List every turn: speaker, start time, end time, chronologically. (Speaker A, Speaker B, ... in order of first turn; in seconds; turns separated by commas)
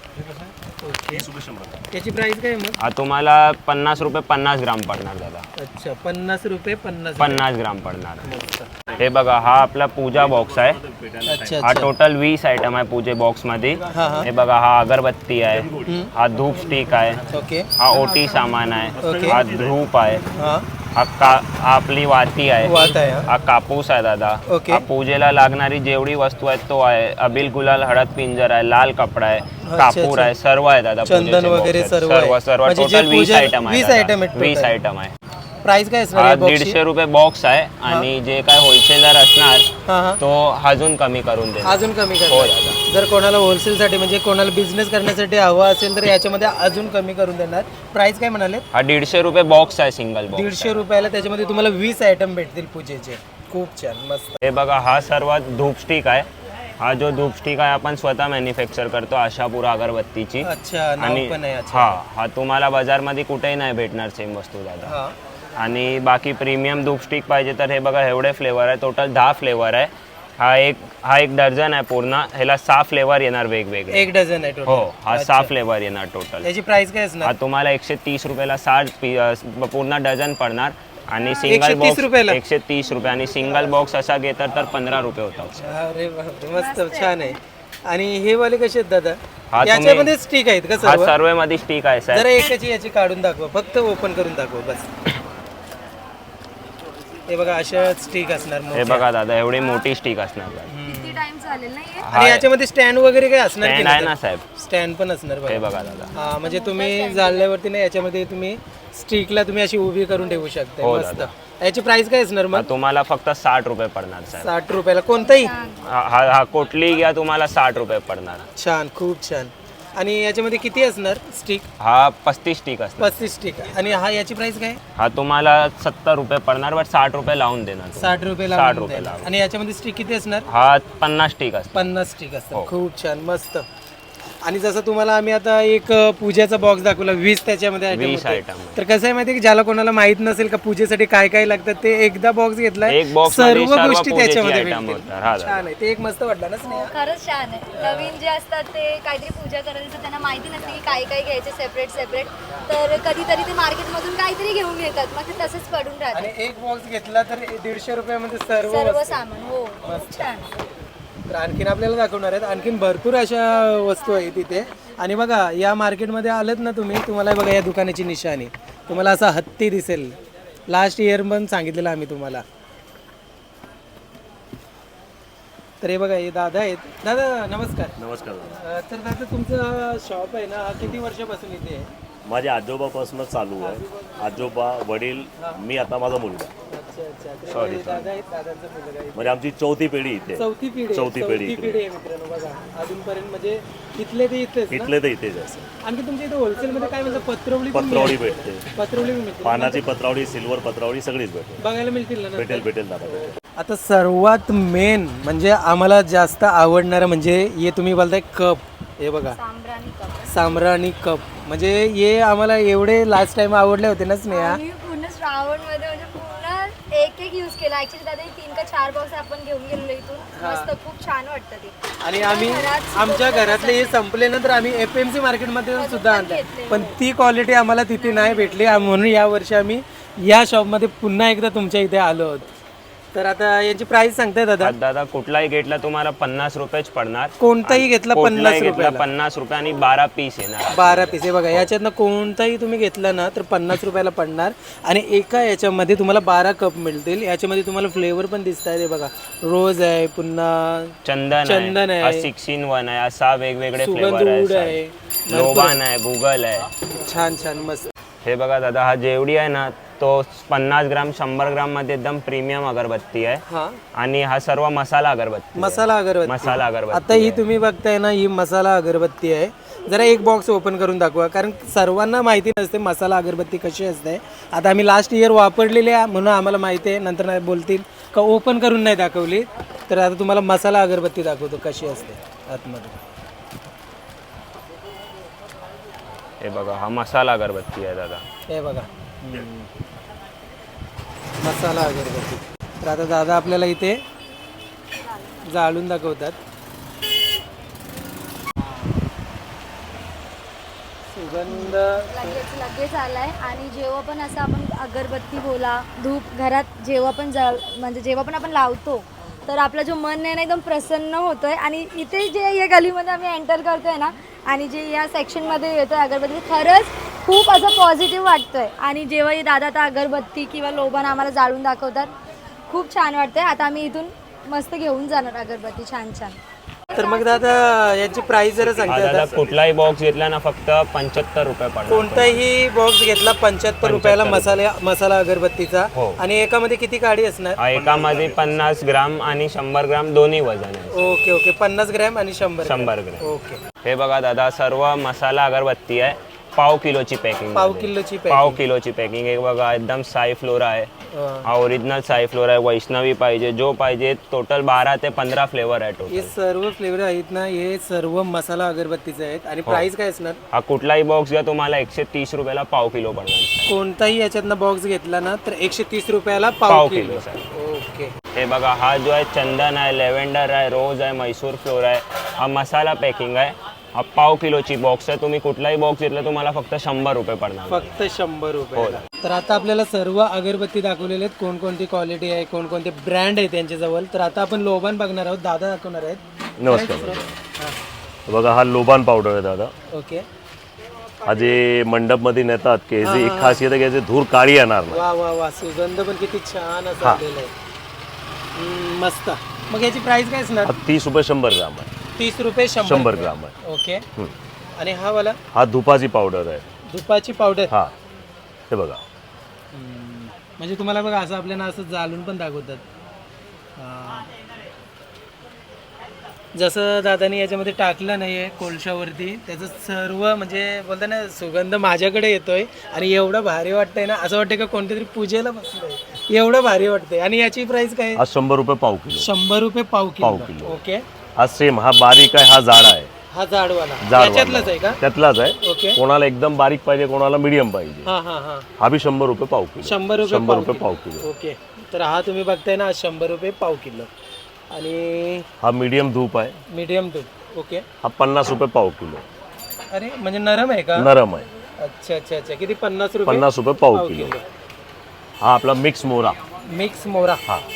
Speaker A: 0.1-0.5, Speaker B: 0.8-1.3, Speaker A: 1.1-1.8, Speaker B: 1.9-2.8, Speaker C: 2.8-5.5, Speaker B: 5.6-7.4, Speaker C: 7.2-8.3, Speaker B: 8.2-8.7, Speaker C: 9.0-10.8, Speaker A: 10.1-11.8, Speaker B: 11.2-11.9, Speaker C: 11.6-20.2, Speaker B: 13.9-14.3, Speaker A: 15.5-17.2, Speaker B: 15.8-16.1, Speaker B: 17.3-17.7, Speaker A: 17.9-20.2, Speaker B: 19.0-19.4, Speaker B: 20.3-20.6, Speaker C: 20.9-35.1, Speaker B: 22.6-23.3, Speaker B: 24.5-24.8, Speaker B: 29.6-30.3, Speaker B: 31.1-34.7, Speaker B: 35.6-36.8, Speaker C: 36.1-39.7, Speaker B: 39.9-40.2, Speaker C: 40.2-42.8, Speaker B: 41.6-48.6, Speaker C: 48.7-50.8, Speaker B: 50.3-54.4, Speaker C: 54.4-56.3, Speaker C: 56.8-64.9, Speaker B: 60.4-62.0, Speaker B: 64.8-65.1, Speaker C: 65.6-74.1, Speaker B: 73.9-75.5, Speaker C: 74.7-76.5, Speaker B: 76.4-77.3, Speaker C: 77.2-85.7, Speaker B: 81.5-82.4, Speaker B: 85.6-91.1, Speaker D: 86.5-87.3, Speaker C: 89.5-90.1, Speaker C: 90.8-92.5, Speaker B: 92.1-94.9, Speaker B: 97.3-99.0, Speaker C: 98.7-100.7, Speaker D: 99.6-99.9, Speaker B: 100.7-101.2, Speaker D: 100.8-102.1, Speaker C: 102.0-102.5, Speaker B: 102.1-112.7, Speaker C: 103.6-104.4, Speaker C: 105.5-106.1, Speaker D: 106.1-107.5, Speaker C: 110.8-111.3, Speaker C: 112.5-114.5, Speaker B: 114.4-115.5, Speaker D: 115.2-115.8, Speaker C: 115.8-118.5, Speaker B: 118.5-121.7, Speaker C: 121.8-123.2, Speaker B: 123.0-124.8, Speaker C: 125.0-129.3, Speaker B: 128.0-130.4, Speaker C: 130.5-132.0, Speaker B: 131.7-133.7, Speaker B: 134.4-146.9, Speaker C: 137.9-138.8, Speaker C: 142.9-145.7, Speaker D: 146.6-156.3, Speaker B: 147.8-148.1, Speaker B: 156.1-159.2, Speaker D: 158.7-160.5, Speaker B: 159.8-160.3, Speaker B: 161.3-170.2, Speaker B: 170.7-172.4, Speaker B: 175.8-177.9, Speaker A: 178.0-178.6, Speaker B: 178.5-181.9, Speaker A: 182.2-186.5, Speaker B: 183.6-184.5, Speaker B: 186.7-189.4, Speaker C: 187.5-188.1, Speaker A: 189.1-191.8, Speaker B: 190.3-194.9, Speaker A: 194.7-195.7, Speaker B: 195.8-199.8, Speaker A: 197.7-198.6, Speaker A: 199.4-201.6, Speaker B: 201.6-209.4, Speaker A: 202.3-203.4, Speaker D: 209.3-210.3, Speaker B: 210.3-214.6, Speaker D: 214.3-223.9, Speaker B: 220.3-220.7, Speaker B: 222.0-232.5, Speaker D: 225.8-226.9, Speaker D: 228.0-229.0, Speaker B: 233.1-234.7, Speaker C: 234.6-241.7, Speaker B: 237.4-239.0, Speaker B: 240.7-252.3, Speaker C: 251.0-254.8, Speaker B: 253.8-255.8, Speaker C: 255.3-256.7, Speaker B: 257.0-257.9, Speaker C: 258.2-263.4, Speaker B: 263.4-263.8, Speaker C: 263.9-267.4, Speaker B: 265.6-283.0, Speaker C: 286.4-288.2, Speaker B: 288.5-289.7, Speaker B: 291.4-294.0, Speaker B: 295.4-296.4, Speaker B: 301.1-302.4, Speaker D: 301.5-322.1, Speaker D: 322.7-326.4, Speaker B: 326.9-329.3, Speaker A: 328.6-329.6, Speaker C: 328.9-332.4, Speaker B: 331.9-337.6, Speaker C: 333.8-334.6, Speaker C: 335.9-336.2, Speaker C: 337.6-341.1, Speaker A: 337.7-338.7, Speaker B: 340.9-343.6, Speaker C: 342.6-343.3, Speaker C: 343.8-350.9, Speaker B: 347.5-348.6, Speaker B: 351.1-351.5, Speaker C: 351.4-356.3, Speaker B: 356.1-360.4, Speaker C: 360.5-363.7, Speaker B: 363.7-368.1, Speaker C: 366.7-367.5, Speaker C: 368.3-377.9, Speaker B: 377.7-387.8, Speaker C: 378.7-379.0, Speaker A: 386.6-387.3, Speaker A: 388.3-389.7, Speaker B: 389.9-390.2, Speaker A: 391.2-395.0, Speaker B: 393.0-393.6, Speaker B: 394.9-397.5, Speaker B: 398.6-400.7, Speaker A: 400.6-401.9, Speaker B: 402.2-404.0, Speaker A: 402.8-403.5, Speaker B: 404.8-405.4, Speaker A: 405.5-406.6, Speaker B: 406.9-407.7, Speaker A: 408.7-409.0, Speaker B: 409.7-412.8, Speaker B: 413.8-414.3, Speaker B: 416.6-428.2, Speaker A: 428.1-429.3, Speaker B: 429.2-431.0, Speaker A: 430.2-430.8, Speaker A: 431.4-433.1, Speaker B: 433.3-435.0, Speaker A: 434.0-438.1, Speaker B: 435.6-436.0, Speaker B: 438.0-438.7, Speaker A: 438.8-441.2, Speaker B: 439.8-444.1, Speaker B: 444.7-445.5, Speaker A: 445.6-446.6, Speaker B: 446.7-447.9, Speaker A: 448.0-449.2, Speaker B: 449.9-451.1, Speaker A: 450.9-451.5, Speaker B: 451.8-454.4, Speaker A: 453.2-454.3, Speaker A: 455.4-456.4, Speaker B: 456.7-457.4